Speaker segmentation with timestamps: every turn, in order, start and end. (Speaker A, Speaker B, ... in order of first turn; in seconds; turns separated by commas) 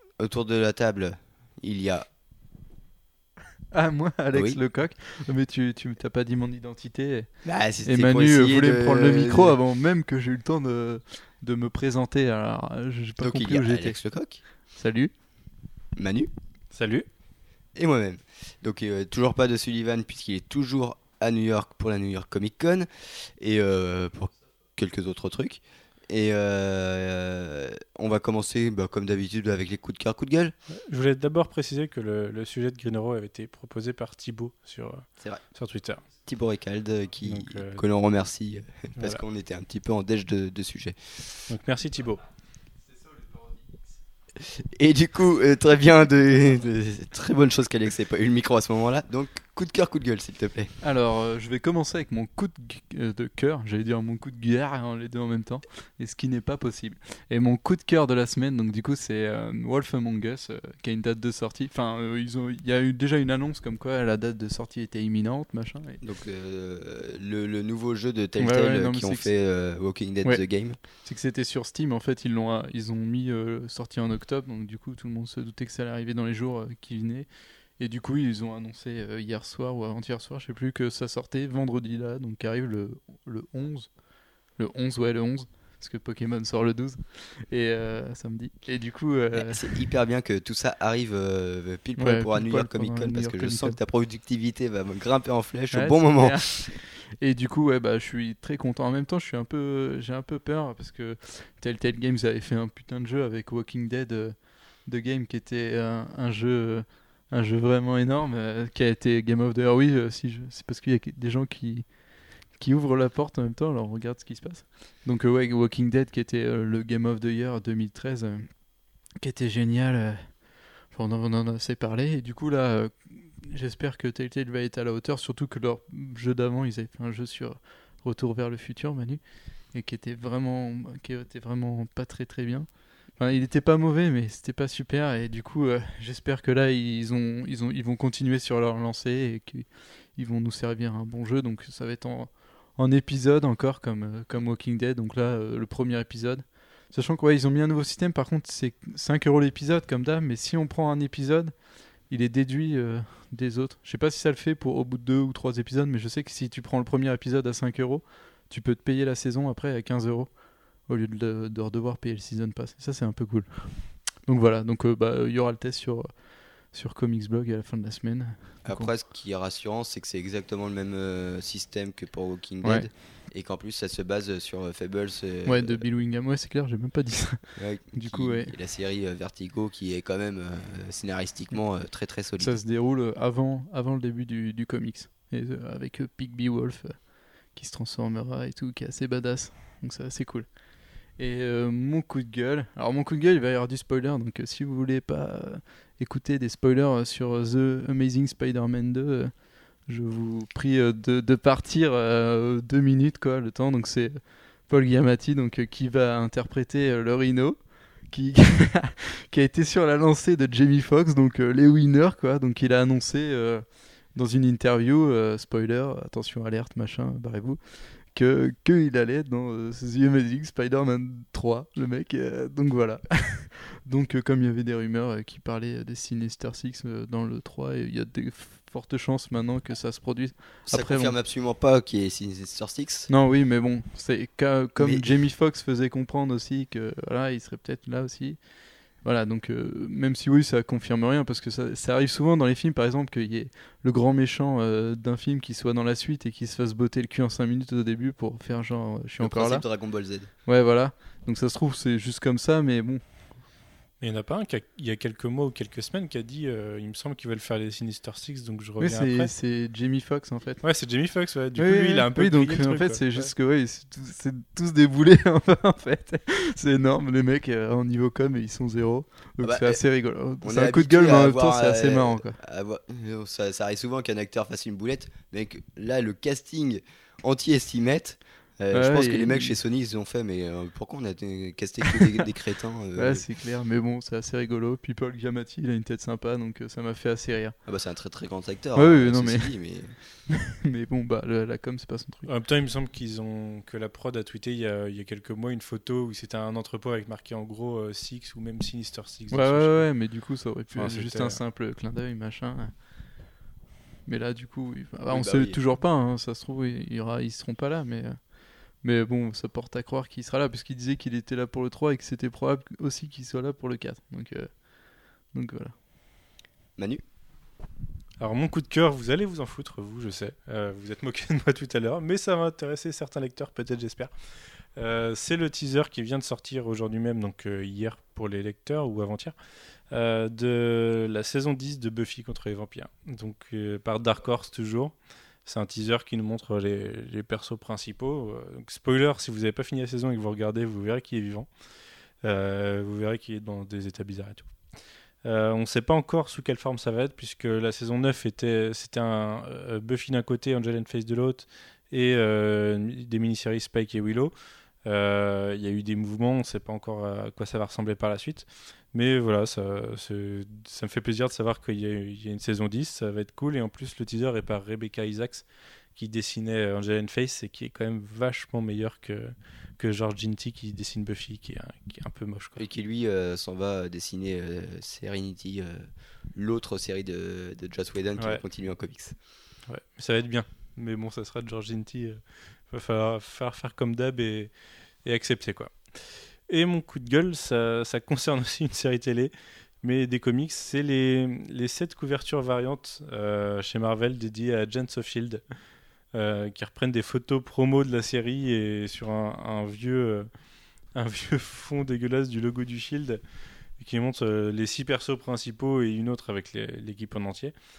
Speaker A: 0.2-2.1, Speaker B: 3.7-7.3, Speaker A: 4.3-4.6, Speaker A: 7.4-9.6, Speaker B: 7.8-14.0, Speaker A: 13.2-14.4, Speaker B: 14.5-15.1, Speaker A: 16.0-16.3, Speaker C: 16.7-17.1, Speaker A: 17.8-30.5, Speaker C: 30.7-36.0, Speaker A: 36.2-41.0, Speaker C: 37.3-37.8, Speaker C: 39.0-39.2, Speaker C: 41.5-42.2, Speaker A: 44.6-50.7, Speaker B: 50.8-66.0, Speaker A: 66.0-70.8, Speaker B: 68.4-69.3, Speaker B: 70.2-89.8, Speaker A: 89.3-96.7, Speaker B: 92.0-93.8, Speaker B: 95.7-168.9, Speaker A: 168.6-175.8, Speaker B: 175.4-178.5, Speaker A: 177.6-182.6, Speaker B: 182.4-231.2, Speaker A: 230.7-233.1, Speaker B: 233.1-249.7, Speaker A: 234.8-235.1, Speaker A: 249.2-250.3, Speaker B: 250.5-253.4, Speaker C: 254.0-259.3, Speaker B: 258.8-260.7, Speaker C: 260.6-263.3, Speaker B: 261.6-272.4, Speaker A: 269.4-269.8, Speaker A: 270.4-283.2, Speaker B: 278.7-279.6, Speaker B: 281.9-282.2, Speaker B: 283.0-287.6, Speaker A: 287.7-290.0, Speaker B: 288.8-289.5, Speaker B: 290.3-292.3, Speaker C: 292.2-299.9, Speaker B: 299.3-303.1, Speaker C: 300.7-301.4, Speaker B: 304.1-314.7, Speaker A: 305.1-305.6, Speaker B: 315.3-315.8, Speaker A: 316.8-317.0, Speaker C: 318.2-324.1, Speaker C: 324.8-329.4, Speaker C: 329.9-334.9, Speaker C: 335.4-341.5, Speaker C: 342.2-344.5, Speaker C: 345.2-354.3, Speaker C: 354.9-372.6, Speaker A: 372.6-379.2, Speaker C: 379.7-384.5, Speaker C: 385.0-385.8, Speaker C: 386.5-395.4, Speaker C: 396.1-400.3, Speaker C: 400.9-403.2, Speaker C: 403.8-407.5